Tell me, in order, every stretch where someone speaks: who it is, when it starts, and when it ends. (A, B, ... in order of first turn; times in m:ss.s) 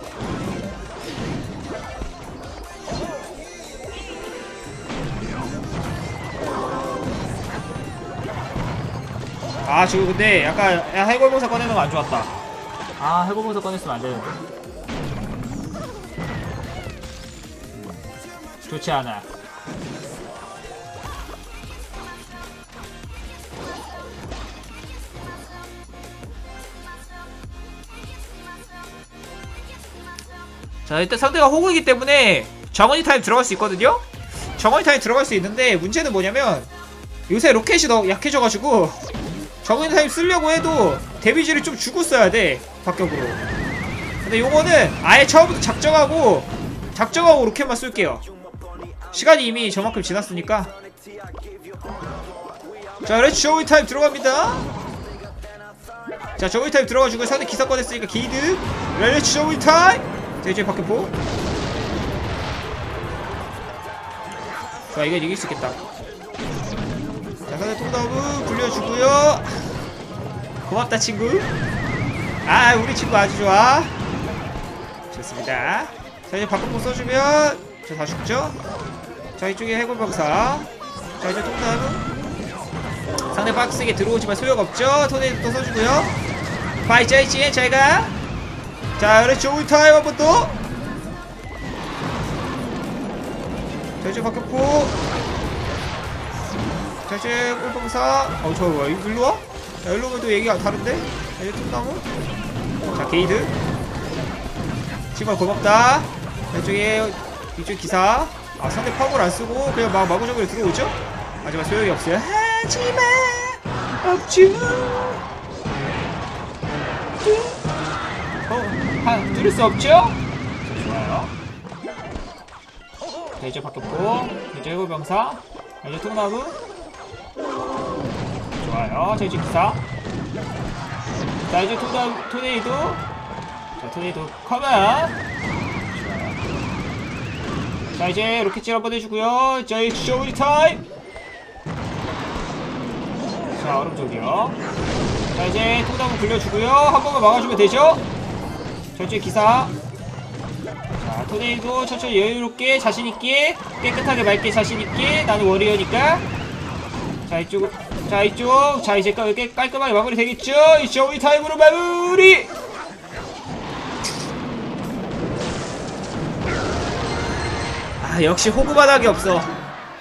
0:09.6-0:12.4 A
0:13.0-0:14.3 A
0:17.7-0:18.0 A
0:18.6-0:19.3 A
0:30.8-0:36.7 A
0:37.3-0:39.0 A
0:39.6-0:43.4 A
0:44.2-0:48.2 A
0:49.1-0:50.7 A
0:53.0-0:54.7 A
0:56.4-1:01.1 A
1:04.9-1:05.8 A
1:07.5-1:09.7 A
1:10.7-1:11.5 A
1:12.4-1:14.0 A
1:15.1-1:18.6 A
1:19.4-1:22.1 A
1:23.3-1:26.2 A
1:26.8-1:28.2 A
1:29.0-1:30.6 A
1:34.0-1:35.0 A
1:37.0-1:42.1 A
1:42.9-1:43.5 A
1:45.1-1:55.2 A
1:57.2-1:57.6 A
1:58.4-2:01.3 A
2:03.4-2:06.6 A
2:08.6-2:09.8 A
2:11.5-2:13.0 A
2:13.8-2:15.2 A
2:15.9-2:16.4 A
2:18.0-2:20.8 A
2:23.5-2:24.6 A
2:25.3-2:28.0 A
2:28.9-2:29.7 A
2:31.0-2:36.2 A
2:37.3-2:42.5 A
2:48.0-2:49.6 A